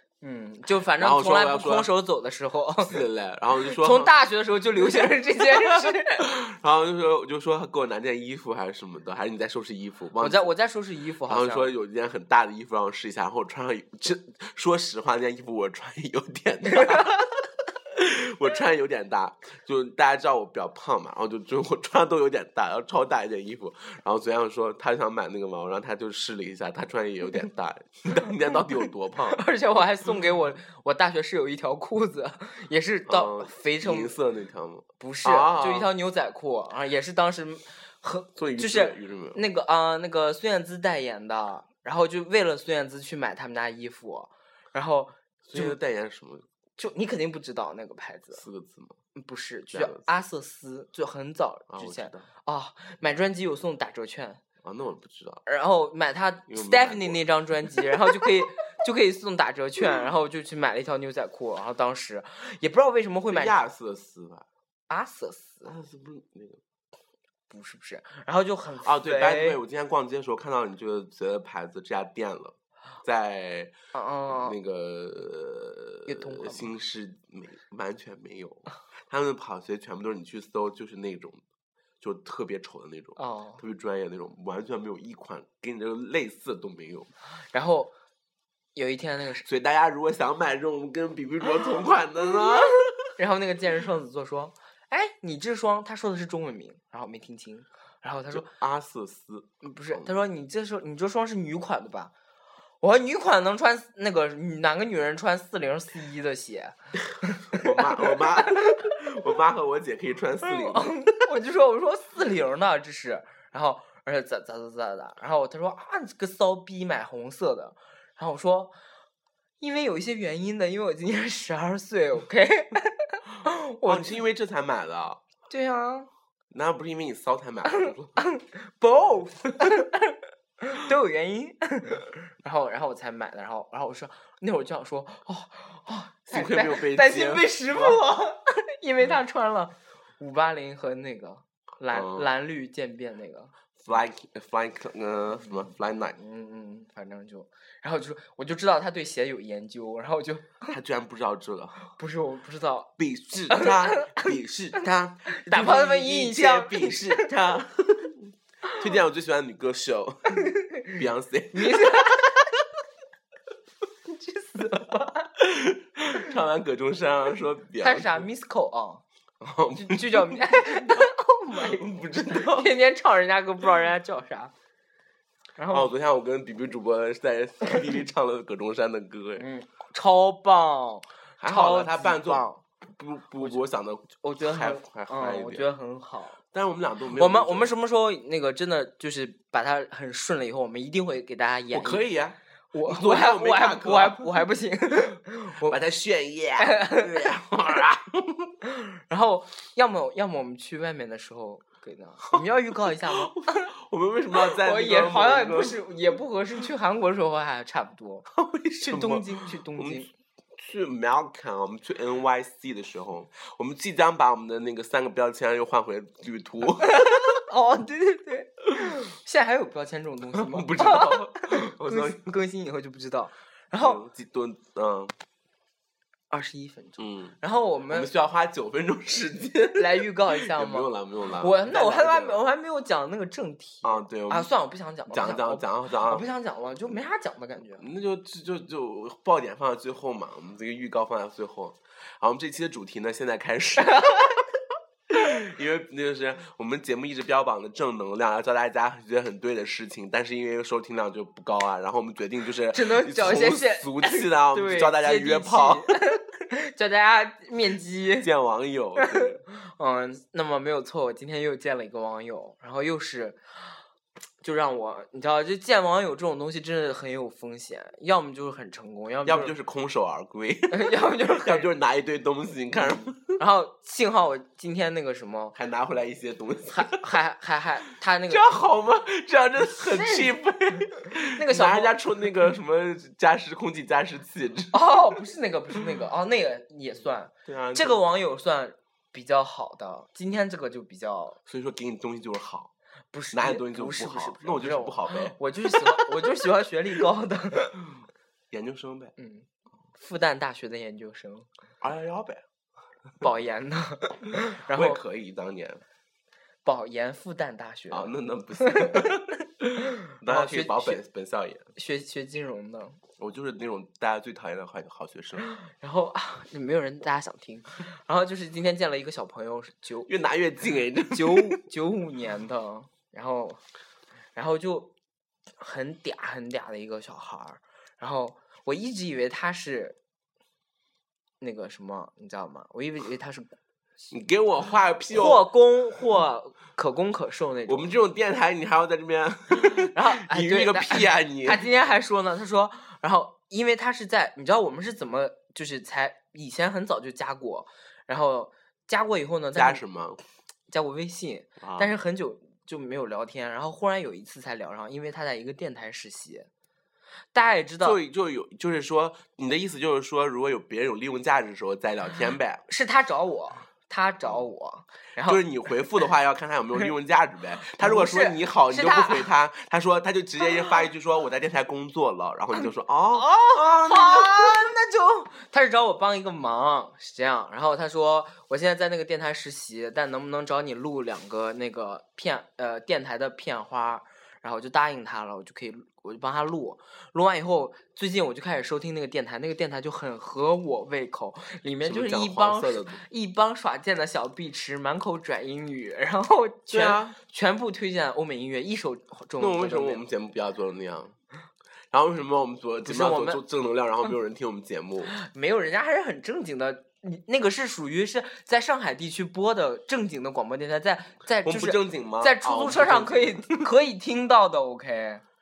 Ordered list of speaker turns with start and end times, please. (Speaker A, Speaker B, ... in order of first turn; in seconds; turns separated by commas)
Speaker A: 0.2-3.0, Speaker B: 1.0-1.9, Speaker B: 2.8-4.1, Speaker A: 3.6-6.3, Speaker B: 4.8-10.5, Speaker A: 10.2-11.7, Speaker B: 11.3-29.4, Speaker A: 29.3-34.1, Speaker B: 33.1-35.9, Speaker A: 35.0-45.8, Speaker B: 38.4-39.4, Speaker B: 45.5-46.5, Speaker A: 46.8-48.4, Speaker B: 48.4-49.0, Speaker A: 49.1-54.4, Speaker B: 49.7-50.1, Speaker B: 51.7-52.3, Speaker B: 54.6-55.4, Speaker A: 55.5-63.6, Speaker B: 56.5-58.3, Speaker B: 63.3-64.5, Speaker A: 64.9-65.7, Speaker B: 65.6-66.6, Speaker A: 67.5-69.6, Speaker B: 68.8-73.7, Speaker A: 73.9-74.6, Speaker B: 74.3-81.4, Speaker A: 76.1-76.7, Speaker B: 82.0-87.1, Speaker A: 83.2-83.6, Speaker A: 87.5-87.9, Speaker A: 88.8-89.4, Speaker B: 89.4-93.1, Speaker A: 92.3-98.5, Speaker B: 98.3-100.2, Speaker A: 99.6-102.1, Speaker A: 102.8-108.9, Speaker B: 107.5-111.1, Speaker A: 110.4-118.7, Speaker A: 119.6-124.2, Speaker B: 123.8-125.2, Speaker A: 125.5-126.1, Speaker B: 126.5-128.2, Speaker A: 127.7-143.5, Speaker B: 136.3-138.0, Speaker B: 141.9-142.3, Speaker B: 143.8-146.2, Speaker A: 146.2-150.8, Speaker B: 150.7-151.8, Speaker A: 152.0-152.9, Speaker B: 153.0-162.4, Speaker A: 153.5-154.3, Speaker A: 155.3-157.3, Speaker A: 160.5-160.9, Speaker A: 161.5-162.4, Speaker A: 164.1-165.3, Speaker B: 165.4-168.3, Speaker A: 167.8-169.0, Speaker B: 169.4-172.7, Speaker A: 169.8-174.5, Speaker A: 175.6-175.9, Speaker B: 175.7-179.5, Speaker A: 179.4-182.6, Speaker B: 181.4-185.7, Speaker A: 184.2-186.4, Speaker B: 186.5-187.7, Speaker A: 187.2-192.1, Speaker B: 191.7-194.4, Speaker A: 192.7-195.8, Speaker B: 195.7-198.5, Speaker A: 196.6-197.3, Speaker A: 198.7-203.7, Speaker B: 202.3-205.9, Speaker A: 204.4-208.3, Speaker B: 208.3-210.1, Speaker A: 208.8-210.1, Speaker B: 210.6-217.3, Speaker A: 216.8-224.0, Speaker B: 220.3-222.3, Speaker B: 223.8-225.1, Speaker A: 226.3-228.1, Speaker B: 227.0-227.4, Speaker B: 227.9-232.4, Speaker A: 229.8-237.8, Speaker B: 233.8-234.5, Speaker B: 235.1-236.2, Speaker B: 237.8-244.4, Speaker A: 243.8-244.3, Speaker B: 245.1-255.9, Speaker A: 252.7-258.3, Speaker B: 258.2-259.4, Speaker A: 259.0-263.4, Speaker A: 264.4-269.6, Speaker B: 269.3-273.4, Speaker A: 270.7-271.7, Speaker A: 273.4-275.6, Speaker B: 275.6-277.2, Speaker A: 276.7-278.4, Speaker B: 278.3-284.8, Speaker A: 279.8-280.4, Speaker A: 281.1-281.9, Speaker A: 284.7-291.4, Speaker B: 287.5-288.0, Speaker B: 291.5-292.7, Speaker A: 293.1-297.8, Speaker B: 293.3-296.1, Speaker B: 298.5-299.1, Speaker A: 299.2-301.5, Speaker B: 301.8-302.4, Speaker A: 303.2-305.0, Speaker B: 304.7-305.8, Speaker A: 306.6-309.2, Speaker B: 307.9-311.6, Speaker A: 310.0-311.0, Speaker A: 311.8-313.0, Speaker B: 313.2-315.5, Speaker A: 315.4-320.1, Speaker B: 320.1-321.6, Speaker A: 321.1-323.6, Speaker A: 324.4-324.9, Speaker A: 325.6-330.0, Speaker A: 331.4-333.6, Speaker B: 334.1-335.4, Speaker A: 335.1-337.9, Speaker B: 337.7-341.6, Speaker A: 339.6-349.8, Speaker B: 349.6-350.2, Speaker A: 350.7-356.5, Speaker B: 351.6-351.9, Speaker A: 357.3-358.0, Speaker B: 357.8-362.6, Speaker A: 362.7-365.4, Speaker B: 365.2-374.7, Speaker A: 367.8-369.3, Speaker A: 373.1-400.0, Speaker B: 391.8-393.0, Speaker B: 396.7-397.2, Speaker B: 399.4-401.2, Speaker B: 401.9-405.1, Speaker A: 402.9-403.4, Speaker A: 405.1-415.2, Speaker B: 411.4-413.7